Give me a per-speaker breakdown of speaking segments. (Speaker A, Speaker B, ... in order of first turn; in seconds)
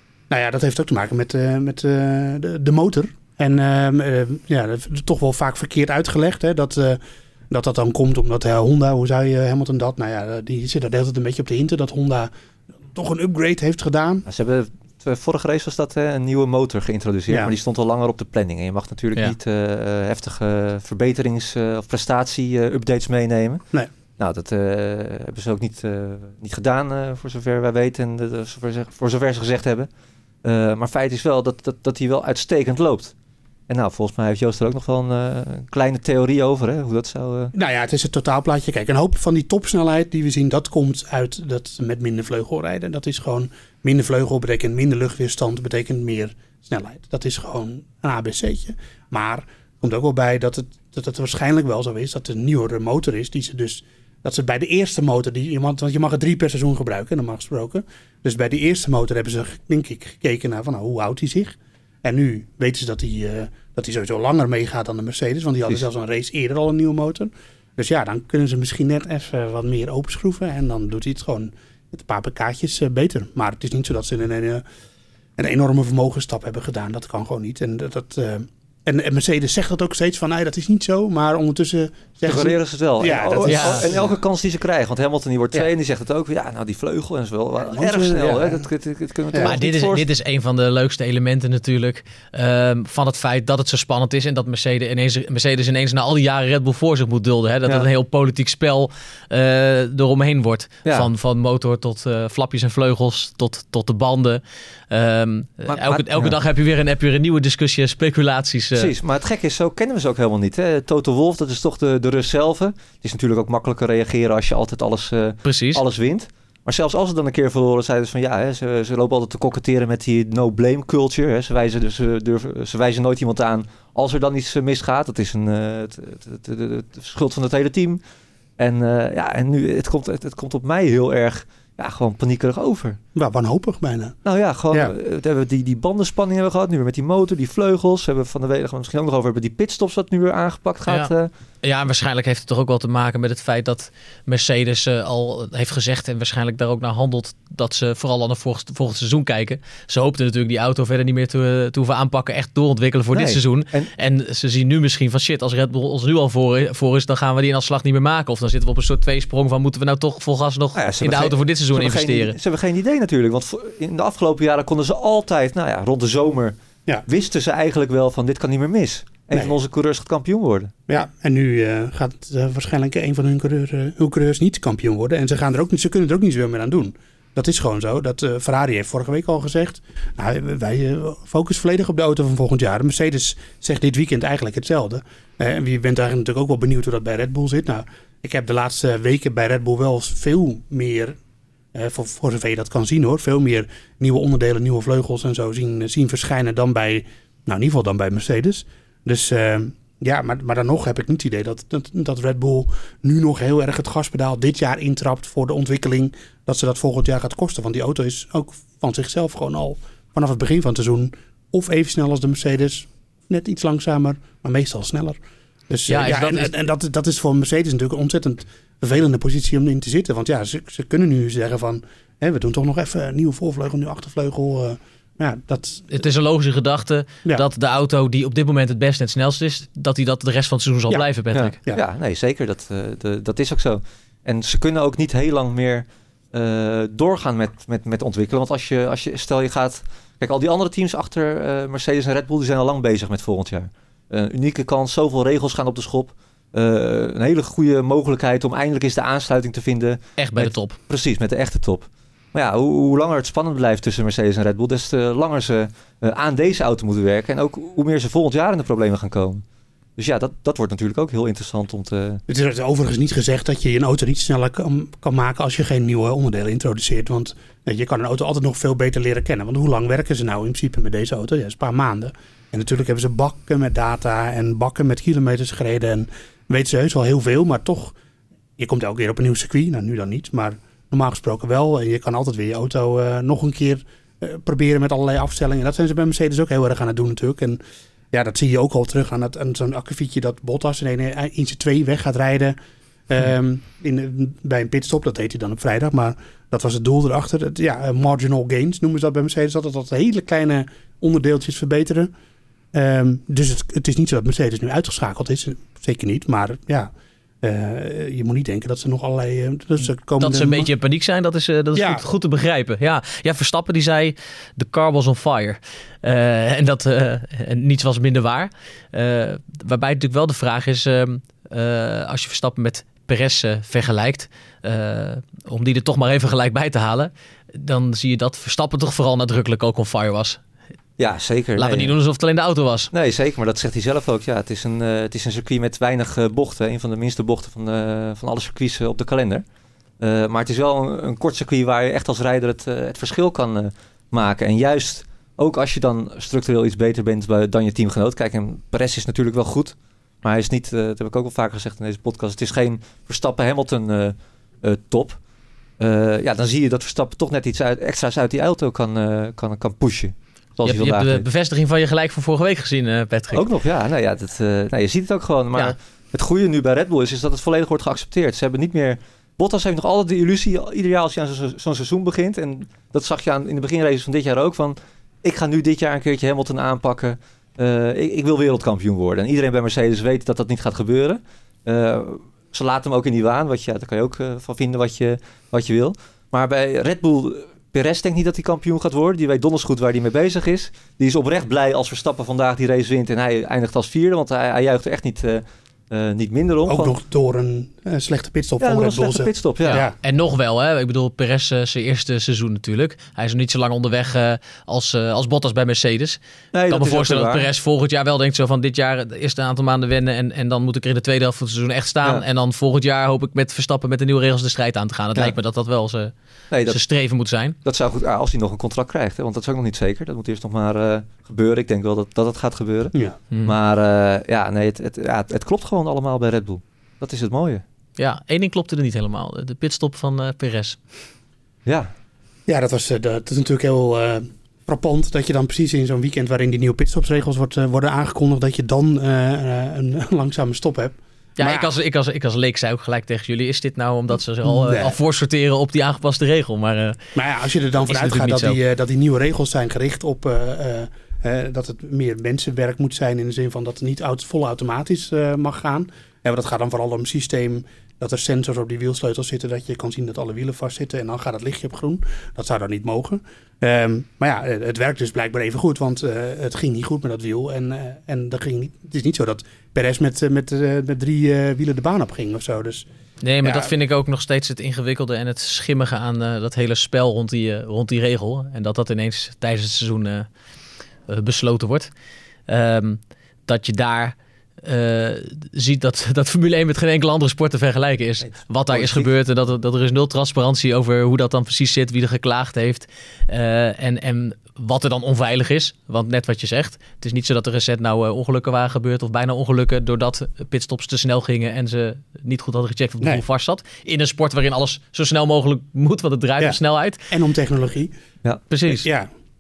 Speaker A: 0.3-7.0, 7.5-12.3, 12.9-14.2, 37.5-74.6, 75.4-84.1, 87.6-88.7, 133.2-134.2, 170.9-191.2, 191.7-226.0, 262.3-277.9, 278.6-287.6, 288.1-292.6, 293.1-302.1, 302.7-306.9, 307.4-310.7, 311.8-312.0, 396.7-400.0, 432.5-441.7, 444.4-445.0, 447.1-472.9, 473.4-473.7, 506.4-507.9, 508.7-509.1
Speaker B: 14.3-23.6, 24.2-29.9, 30.4-33.1, 33.7-37.5, 82.2-90.1, 105.7-106.4, 108.8-128.0, 128.6-133.0, 134.2-141.3, 153.1-153.9, 160.8-170.7, 231.3-259.4, 260.0-262.2, 331.0-331.9, 332.9-339.4, 340.0-355.2, 355.8-361.2, 363.3-397.0, 398.6-399.8, 406.5-407.5, 416.5-416.8, 417.6-427.6, 431.7-431.9, 488.2-489.1
Speaker C: 83.5-83.9, 89.4-108.9, 115.4-115.8, 140.9-162.4, 215.9-216.5, 225.9-231.6, 250.2-250.8, 310.2-330.4, 331.6-332.9, 360.7-363.4, 399.6-406.2, 406.7-416.1, 416.7-417.6, 428.0-430.8, 441.4-447.0, 447.9-448.6, 473.2-480.3, 481.1-481.9, 482.5-507.1, 508.5-508.9